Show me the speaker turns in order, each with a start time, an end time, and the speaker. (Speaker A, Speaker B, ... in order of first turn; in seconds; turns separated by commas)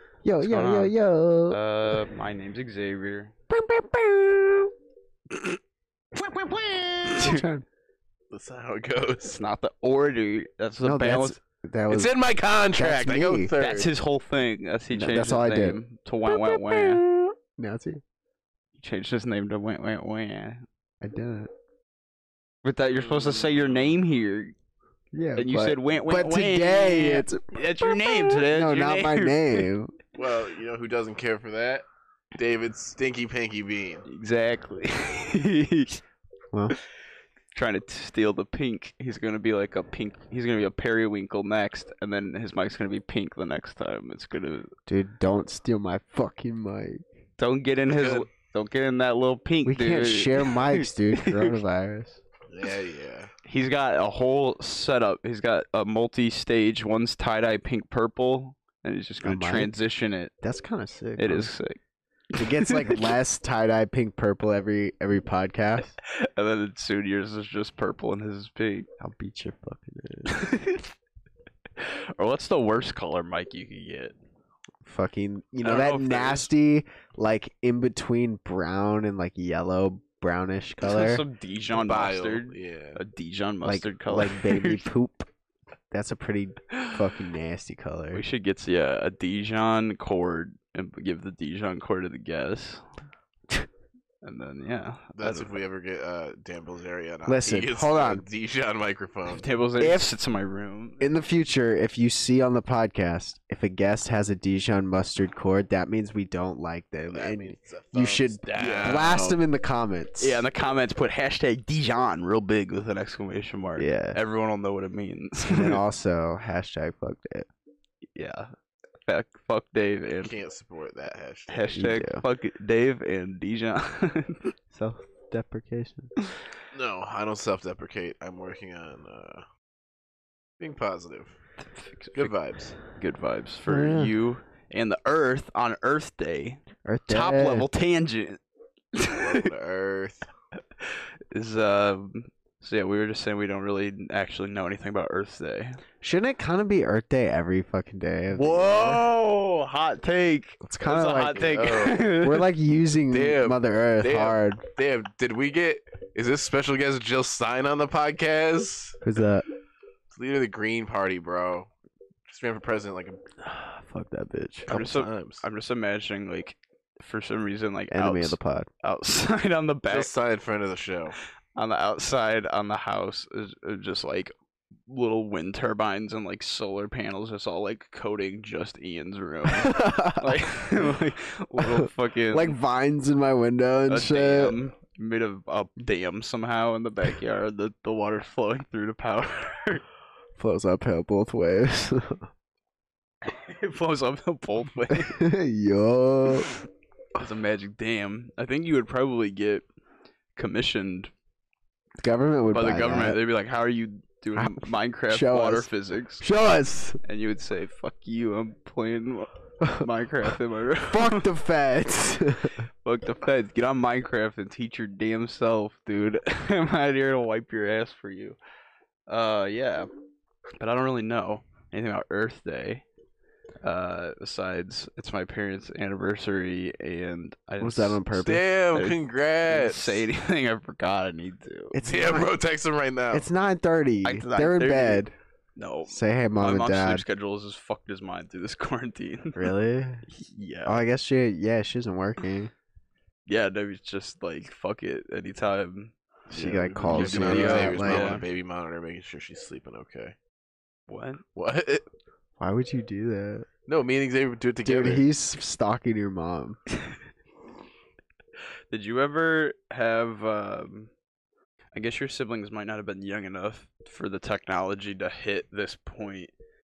Speaker A: 0.2-1.6, Speaker B: 0.4-0.9, Speaker B: 1.5-3.3, Speaker A: 3.5-4.7, Speaker C: 6.5-7.1, Speaker A: 7.0-7.6, Speaker B: 7.1-7.4, Speaker C: 8.3-9.4, Speaker B: 9.2-11.4, Speaker A: 10.8-12.1, Speaker C: 11.9-13.9, Speaker A: 12.7-13.5, Speaker B: 13.6-17.0, Speaker A: 14.9-18.0, Speaker B: 18.8-20.6, Speaker A: 21.0-21.5, Speaker B: 22.6-24.5, Speaker C: 22.9-23.9, Speaker A: 25.1-29.9, Speaker B: 25.4-29.7, Speaker C: 30.1-34.0, Speaker B: 34.0-36.0, Speaker B: 37.5-44.7, Speaker A: 44.9-47.0, Speaker B: 47.4-51.5, Speaker C: 47.9-48.3, Speaker A: 49.6-52.2, Speaker C: 52.5-53.3, Speaker B: 53.5-60.3, Speaker A: 59.2-59.7, Speaker A: 60.4-61.5, Speaker B: 61.2-61.8, Speaker B: 62.3-63.1, Speaker A: 62.4-65.9, Speaker B: 66.0-68.9, Speaker A: 69.0-70.4, Speaker B: 70.3-70.9, Speaker B: 71.8-74.1, Speaker A: 74.8-81.2, Speaker B: 75.6-76.5, Speaker B: 80.8-84.9, Speaker C: 81.7-83.0, Speaker A: 83.6-85.3, Speaker A: 85.9-88.2, Speaker B: 86.7-87.0, Speaker B: 88.1-92.8, Speaker B: 94.2-95.6, Speaker C: 95.2-99.5, Speaker A: 97.3-98.2, Speaker B: 99.3-101.0, Speaker A: 99.8-100.1, Speaker A: 101.0-110.4, Speaker C: 107.1-109.4, Speaker B: 108.5-109.0, Speaker B: 110.2-115.8, Speaker A: 113.8-114.2, Speaker A: 115.5-117.5, Speaker B: 118.2-118.5, Speaker B: 119.1-120.3, Speaker C: 120.2-121.7, Speaker B: 121.5-124.5, Speaker A: 121.7-122.2, Speaker A: 124.7-126.1, Speaker C: 126.7-129.4, Speaker C: 130.6-131.3, Speaker B: 131.7-132.3, Speaker C: 132.1-132.8, Speaker B: 132.9-138.4, Speaker A: 133.7-134.1, Speaker A: 136.8-137.7, Speaker B: 138.9-139.4, Speaker C: 139.1-140.2, Speaker B: 140.8-145.8, Speaker A: 146.0-149.1, Speaker B: 148.3-152.5, Speaker A: 150.6-151.6, Speaker C: 151.4-152.1, Speaker A: 152.2-154.6, Speaker C: 153.1-159.0, Speaker A: 159.0-159.4, Speaker C: 160.1-161.7, Speaker C: 162.3-163.2, Speaker A: 163.4-164.7, Speaker B: 164.7-170.1, Speaker C: 164.7-165.4, Speaker A: 167.9-168.7, Speaker C: 169.9-171.2, Speaker B: 171.6-174.3, Speaker B: 174.9-182.6, Speaker A: 179.5-180.9, Speaker A: 181.6-184.6, Speaker B: 183.9-189.8, Speaker A: 190.4-192.2, Speaker B: 193.2-195.2, Speaker A: 194.9-196.5, Speaker B: 197.2-199.7, Speaker B: 200.4-201.1, Speaker A: 202.0-203.2, Speaker B: 202.5-206.2, Speaker A: 204.4-205.7, Speaker A: 206.2-207.0, Speaker B: 207.0-211.3, Speaker A: 209.6-209.9, Speaker A: 210.9-212.6, Speaker B: 212.8-218.4, Speaker B: 219.1-219.9, Speaker B: 220.6-222.8, Speaker B: 223.6-228.0, Speaker A: 227.6-228.4, Speaker C: 228.1-230.1, Speaker B: 228.7-231.8, Speaker A: 231.7-232.3, Speaker C: 231.8-233.2, Speaker A: 233.1-235.1, Speaker B: 234.0-235.1, Speaker B: 235.6-239.5, Speaker A: 235.9-237.1, Speaker A: 239.3-240.1, Speaker B: 240.1-240.8, Speaker A: 240.6-242.5, Speaker B: 243.3-245.9, Speaker A: 246.3-248.2, Speaker C: 246.3-250.2, Speaker B: 246.9-248.2, Speaker B: 250.9-251.2, Speaker C: 251.4-251.8, Speaker A: 252.4-253.5, Speaker C: 253.7-255.0, Speaker A: 254.6-256.6, Speaker B: 258.7-260.9, Speaker B: 261.7-266.3